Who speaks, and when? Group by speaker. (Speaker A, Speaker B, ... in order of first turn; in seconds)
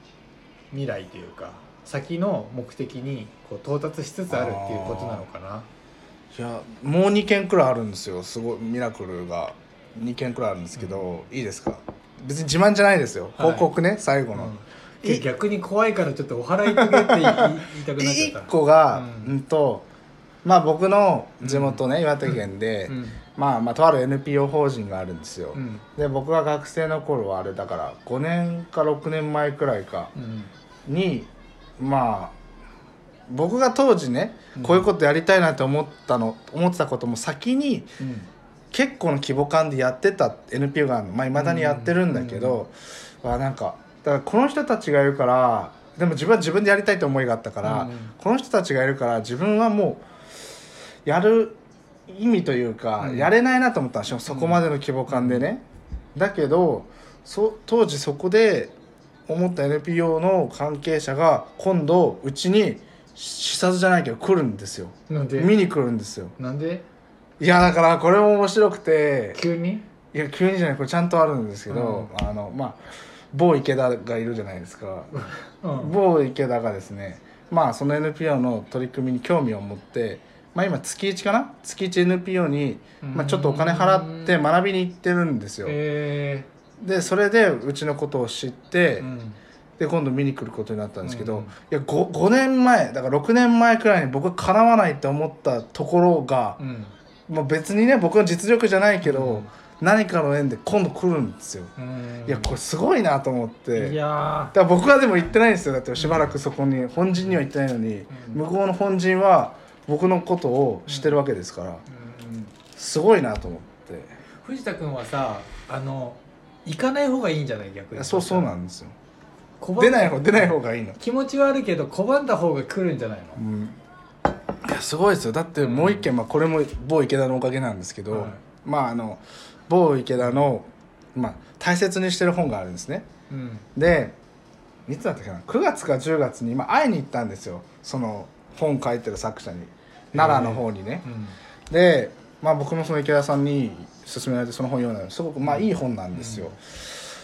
Speaker A: 0.7-5.7, 10.8-11.2, 13.4-13.7, 14.3-19.4, 21.4-23.2, 25.5-25.9, 30.1-30.5, 34.5-34.9, 38.0-38.3, 41.4-42.6, 47.6-48.1, 53.0-53.3, 54.3-55.5, 65.1-65.6, 66.4-66.8, 69.3-69.9, 71.7-72.1, 75.1-76.0, 83.0-84.4, 85.7-86.5, 89.0-89.4, 91.0-91.5, 96.6-96.9, 99.0-99.5, 101.8-102.5, 103.8-104.6, 106.0-106.3, 108.1-108.4, 110.9-111.2, 111.9-112.5, 114.4-118.5, 119.6-123.4, 125.6-126.1, 128.1-128.4, 133.3-133.7, 140.1-141.4, 145.4-146.6
Speaker B: 4.3-5.3, 6.3-15.2, 16.7-19.9, 20.4-30.1, 30.9-32.4, 33.3-38.0, 38.7-50.1, 51.0-58.8, 59.3-66.3, 67.4-69.4, 70.1-72.8, 73.3-75.1, 75.7-85.8, 86.8-89.1, 89.8-96.6, 97.3-101.7, 102.2-104.0, 104.5-111.8, 112.7-114.2, 118.0-119.0, 119.8-121.0, 123.4-123.8, 124.6-133.1, 133.8-134.2, 134.9-141.1, 141.7-146.9